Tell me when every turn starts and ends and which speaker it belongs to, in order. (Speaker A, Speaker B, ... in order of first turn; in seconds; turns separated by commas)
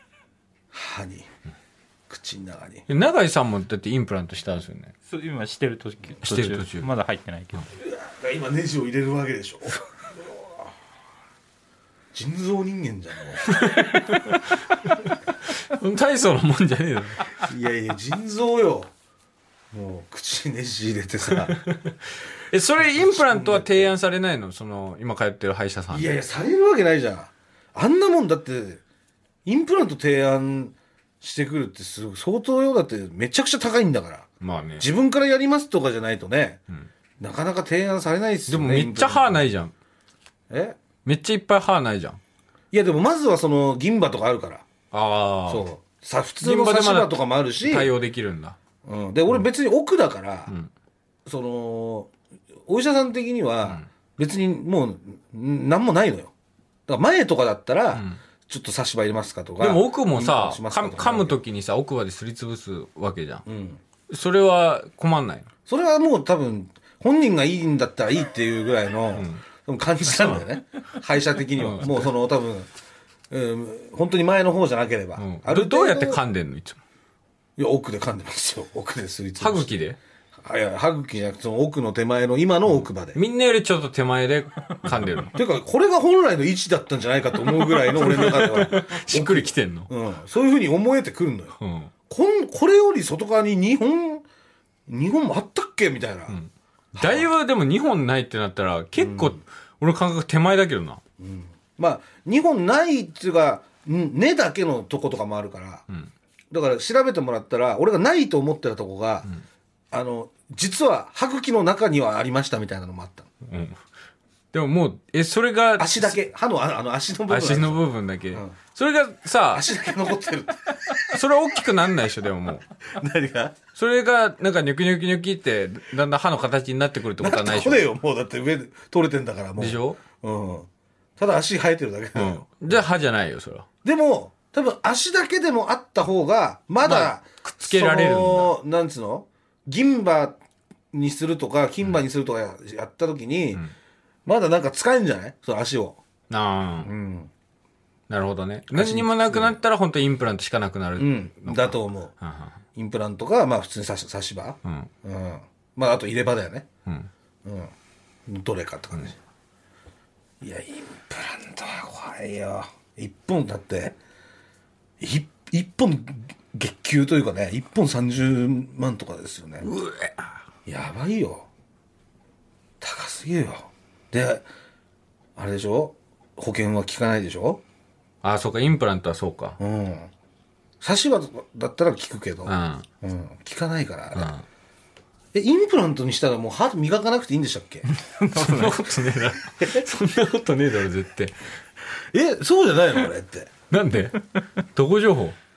Speaker A: 0.7-1.3, Speaker A: 2.1-2.9, Speaker B: 2.9-4.9, Speaker C: 5.1-7.7, Speaker B: 6.2-6.9, Speaker A: 7.8-10.7, Speaker A: 12.1-13.6, Speaker B: 13.5-17.4, Speaker A: 17.4-18.9, Speaker A: 19.7-21.6, Speaker B: 21.5-22.0, Speaker B: 22.5-26.2, Speaker A: 22.8-23.9, Speaker A: 25.9-28.8, Speaker A: 29.5-34.3, Speaker B: 34.4-34.9, Speaker A: 34.8-36.6, Speaker A: 37.2-39.4, Speaker B: 38.5-39.7, Speaker A: 40.5-40.8, Speaker B: 41.0-42.2, Speaker A: 42.7-44.7, Speaker B: 44.9-45.7, Speaker A: 45.5-47.9, Speaker B: 46.4-48.6, Speaker A: 48.9-50.5, Speaker A: 51.3-52.1, Speaker A: 52.7-56.3, Speaker A: 56.9-61.4, Speaker B: 57.9-58.2, Speaker B: 59.6-63.5, Speaker A: 63.5-63.8, Speaker B: 64.1-65.5, Speaker A: 65.7-72.7, Speaker B: 69.2-69.4, Speaker B: 71.6-72.1, Speaker A: 73.3-76.2, Speaker B: 75.2-76.8, Speaker A: 77.6-79.8, Speaker B: 79.4-80.0, Speaker A: 80.4-83.2, Speaker B: 83.1-85.3, Speaker A: 85.3-91.6, Speaker B: 87.4-89.9, Speaker B: 91.6-91.9, Speaker A: 92.1-94.2, Speaker A: 94.9-96.4, Speaker B: 96.3-101.0, Speaker A: 96.9-97.3, Speaker A: 99.0-99.4, Speaker A: 101.2-105.9, Speaker A: 106.5-109.3, Speaker A: 109.9-113.3, Speaker B: 113.5-113.8, Speaker B: 114.5-116.2, Speaker A: 115.8-118.6, Speaker B: 117.3-119.7, Speaker A: 119.5-121.2, Speaker B: 121.0-122.7, Speaker A: 122.9-123.6, Speaker B: 123.8-127.9, Speaker A: 127.2-132.8, Speaker B: 129.6-130.0, Speaker B: 132.2-133.7, Speaker A: 133.8-140.4, Speaker B: 136.8-138.5, Speaker A: 140.9-143.6, Speaker A: 144.3-146.0, Speaker B: 146.3-146.9, Speaker A: 146.8-147.3, Speaker B: 148.1-152.6, Speaker A: 148.7-149.6, Speaker A: 151.0-152.1, Speaker A: 152.8-156.7, Speaker B: 154.7-154.9, Speaker A: 157.4-157.7, Speaker A: 158.3-159.2, Speaker A: 160.4-164.0, Speaker A: 165.0-169.7, Speaker B: 169.6-170.4, Speaker A: 170.7-171.5, Speaker A: 172.8-174.5, Speaker A: 175.4-177.6, Speaker B: 178.2-179.6, Speaker A: 179.6-180.1, Speaker A: 180.8-184.3, Speaker B: 182.5-182.9, Speaker B: 184.2-184.4, Speaker A: 185.3-188.9, Speaker B: 188.3-191.4, Speaker A: 189.6-189.8, Speaker A: 192.0-193.5, Speaker B: 193.7-195.4